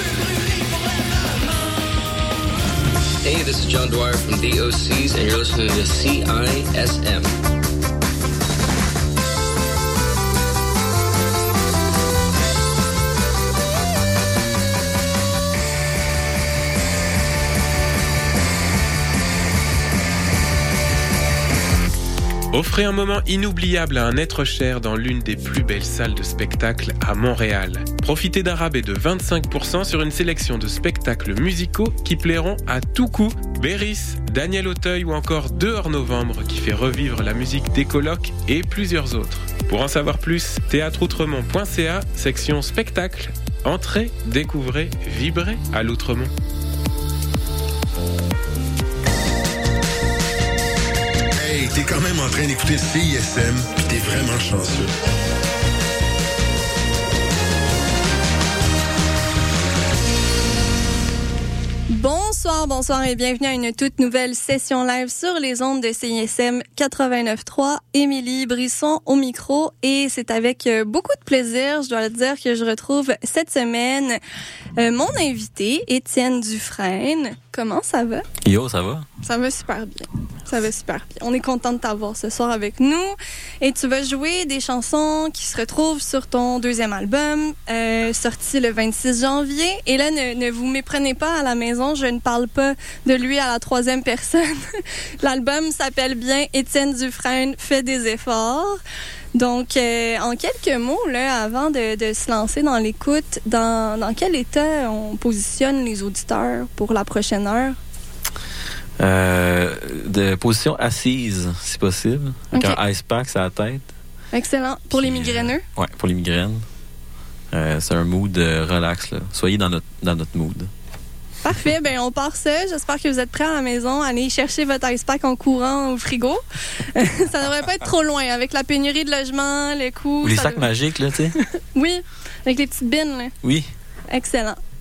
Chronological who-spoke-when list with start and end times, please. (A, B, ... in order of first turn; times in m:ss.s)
0:03.2-0:07.3 A
0:22.5-0:46.3 B
0:51.4-0:54.9 C
1:01.9-1:14.2 D
1:14.8-1:18.2 D
1:18.4-1:19.0 E
1:19.2-1:34.6 D
1:35.2-1:38.8 D
1:39.3-1:47.8 D
1:49.0-1:53.9 E
1:52.5-1:52.8 D
1:54.3-1:55.6 D
1:54.9-1:56.6 E
1:57.5-2:00.7 E
2:01.4-2:06.4 D
2:06.9-2:10.7 D
2:10.2-2:11.4 E
2:11.7-2:13.3 D
2:13.4-2:13.7 E
2:14.1-2:14.6 D